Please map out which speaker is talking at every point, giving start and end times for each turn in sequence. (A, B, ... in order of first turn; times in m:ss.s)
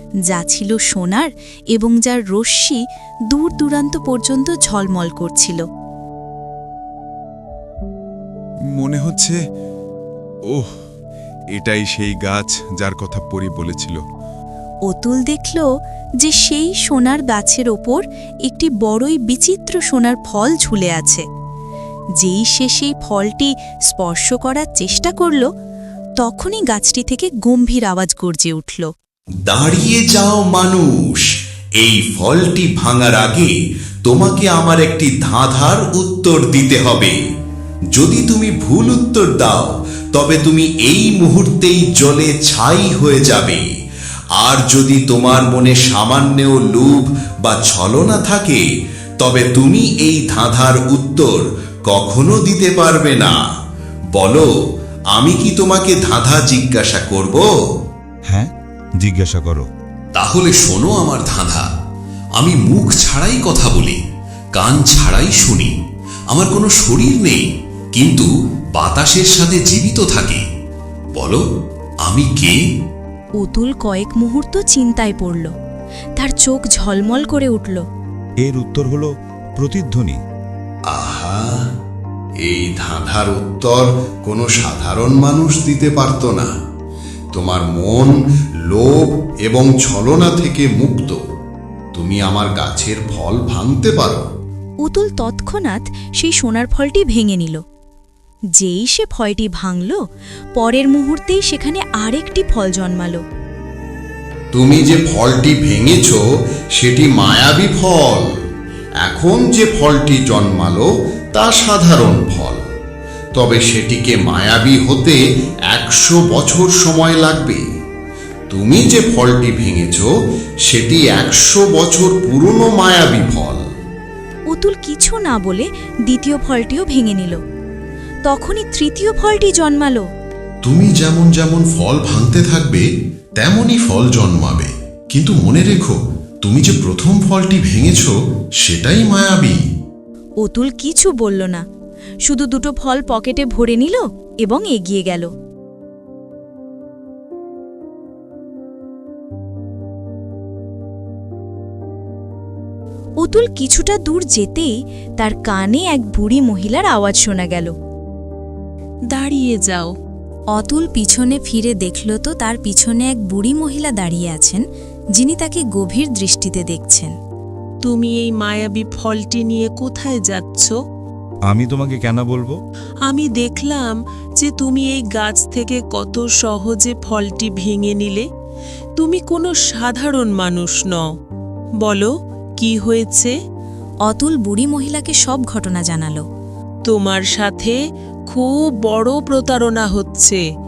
0:00.3-0:05.6 A
0:08.7-0:09.4 B
0:11.5-0:14.0 B
0:14.9-0:15.6 A
0:16.2-0:21.2 A
0:22.2-0:25.5 A
0:26.2-0:28.9 A
0:29.4-0:33.5 C
0:34.0-0:37.2 C
0:37.9-0:43.7 C
0:44.4-0:48.6 C
0:49.2-0:53.3 C
0:54.1-0:54.5 C
0:55.1-0:57.4 C
0:58.3-0:59.7 D
1:00.2-1:01.6 C
1:00.2-1:01.6 E
1:02.4-1:04.0 C
1:02.4-1:03.0 E
1:03.6-1:03.9 E
1:04.6-1:05.7 C
1:04.8-1:05.7 E
1:06.3-1:07.4 E
1:08.8-1:10.4 C
1:08.8-1:10.4 E
1:12.1-1:12.5 E
1:12.1-1:12.5 C
1:13.4-1:15.5 A
1:16.2-1:17.8 A
1:18.4-1:20.2 D
1:20.9-1:21.6 E
1:22.4-1:26.5 E
1:27.3-1:28.1 E
1:28.7-1:31.2 E
1:31.9-1:34.2 E
1:34.8-1:37.6 A
1:38.6-1:40.0 A
1:40.6-1:43.2 A
1:44.5-1:46.2 E
1:46.8-1:48.3 E
1:49.0-1:52.6 E
1:53.3-1:55.2 E
1:55.7-1:57.6 E
1:58.5-2:00.1 E
2:00.7-2:03.6 E
2:04.5-2:07.4 A
2:08.2-2:10.0 A
2:10.6-2:12.8 E
2:13.4-2:18.1 E
2:18.6-2:19.6 E
2:20.4-2:21.6 A
2:22.2-2:25.3 A
2:33.2-2:37.7 A
2:39.1-2:39.9 F
2:40.5-2:44.6 A
2:45.2-2:47.1 A
2:47.8-2:50.8 F
2:51.5-2:52.6 D
2:53.0-2:58.2 F
2:59.0-3:01.1 F
3:01.8-3:03.3 F
3:04.0-3:06.2 A
3:06.9-3:07.8 F
3:08.3-3:10.4 F